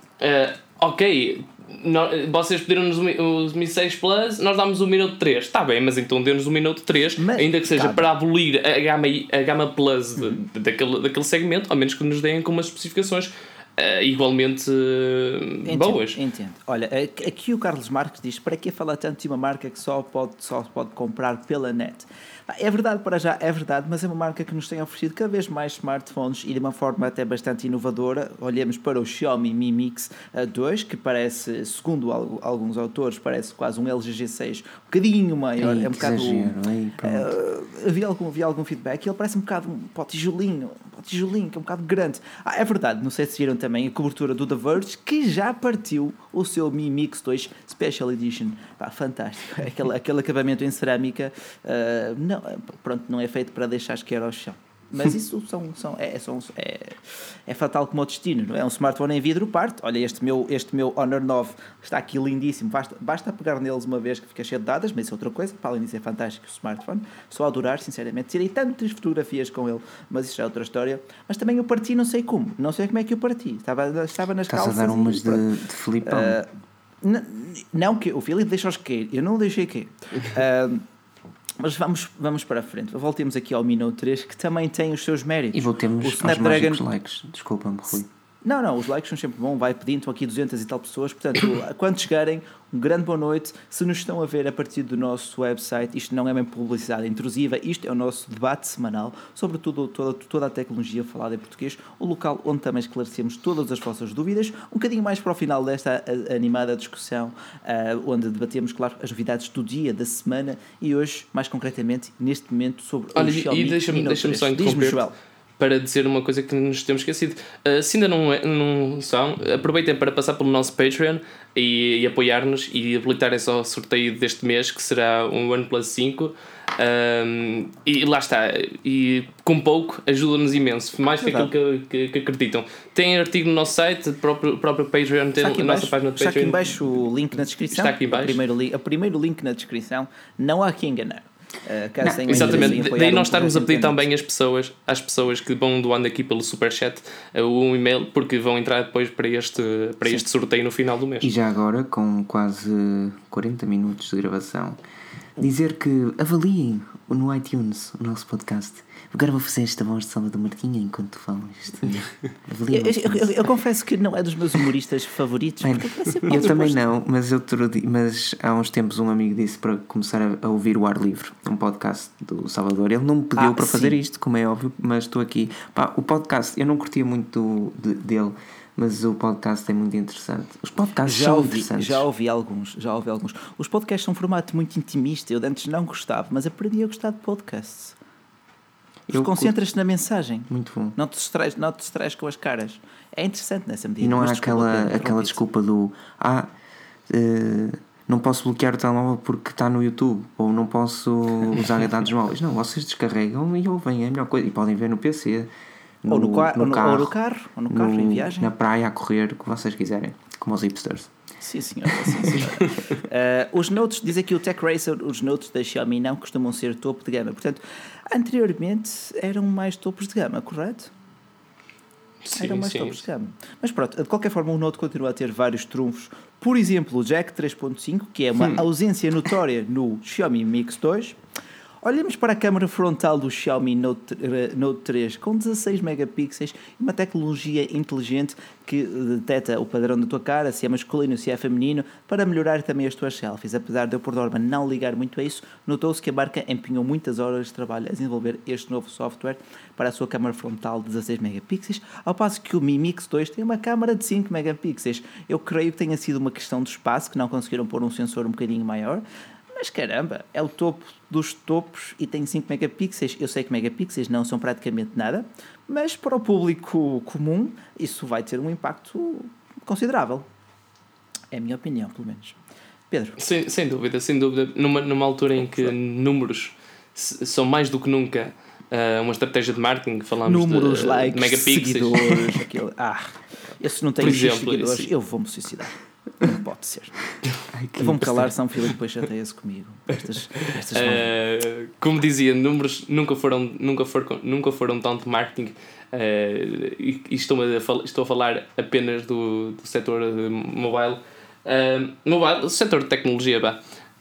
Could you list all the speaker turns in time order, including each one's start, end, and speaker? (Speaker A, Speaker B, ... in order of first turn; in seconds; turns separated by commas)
Speaker A: 0.2-16.2, Speaker B: 7.2-8.1, Speaker B: 15.7-75.5, Speaker C: 35.6-37.3, Speaker C: 74.5-76.4, Speaker B: 76.0-76.5, Speaker B: 77.0-80.8, Speaker B: 81.6-86.8, Speaker C: 85.5-88.1, Speaker B: 88.4-115.1, Speaker A: 113.2-115.0, Speaker A: 115.6-136.9, Speaker B: 131.2-131.5, Speaker B: 135.4-144.0, Speaker A: 137.7-138.4, Speaker C: 142.0-142.8, Speaker A: 142.3-151.3, Speaker C: 151.2-154.8, Speaker C: 155.4-163.4, Speaker B: 162.7-166.8, Speaker C: 165.6-182.1, Speaker B: 173.4-174.0, Speaker B: 181.1-188.0, Speaker C: 189.1-189.6, Speaker B: 189.1-195.4, Speaker C: 190.5-191.0, Speaker C: 194.0-196.5, Speaker C: 197.1-205.5, Speaker C: 206.0-207.2, Speaker B: 206.1-208.5, Speaker C: 207.7-211.1, Speaker B: 211.4-220.9, Speaker A: 222.2-223.1, Speaker B: 222.4-231.2, Speaker B: 231.8-270.3, Speaker B: 271.3-272.4, Speaker B: 272.9-273.2, Speaker A: 273.2-282.2, Speaker B: 280.2-287.0, Speaker A: 284.0-284.9, Speaker C: 287.5-288.3, Speaker B: 287.8-291.1, Speaker A: 290.7-303.6